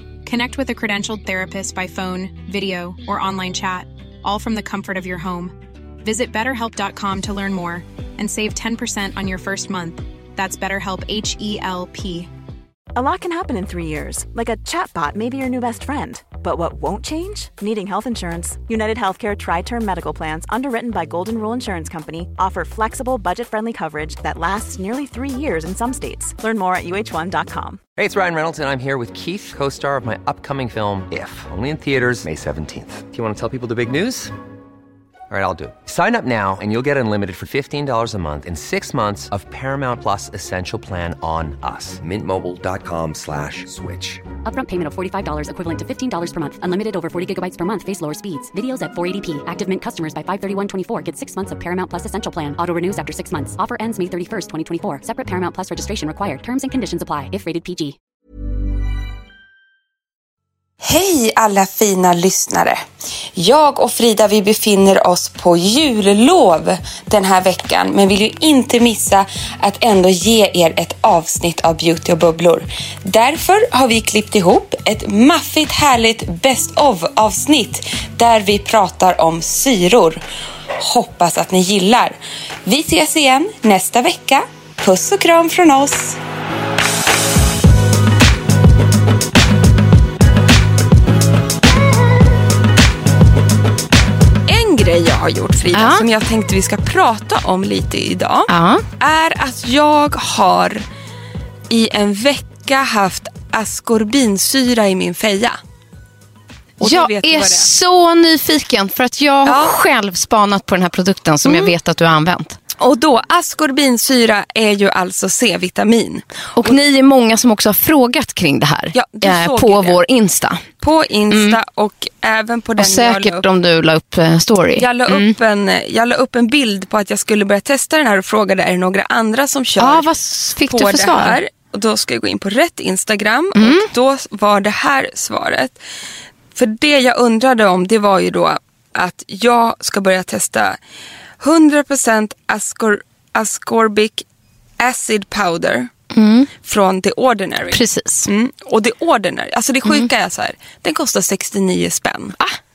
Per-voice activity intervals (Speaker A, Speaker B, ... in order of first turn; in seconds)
Speaker A: 0.2-12.3
Speaker B: 12.9-27.8
Speaker C: 27.9-34.3, 35.3-44.3
Speaker D: 44.4-58.0
Speaker E: 60.8-62.8, 63.3-80.2, 80.8-86.2, 94.5-100.8, 101.7-105.6, 106.8-107.7, 109.4-109.7, 111.4-111.7, 112.8-116.8, 118.9-120.0, 120.8-123.4, 124.8-130.1, 130.6-135.8, 136.5-140.8, 141.4-144.2, 144.8-145.9, 146.6-152.3
Speaker F: 95.7-96.0, 98.5-98.8, 106.8-112.6, 116.5-120.7, 121.3-121.6, 122.8-125.3, 129.8-131.4, 133.6-133.9, 146.1-146.5, 147.7-148.3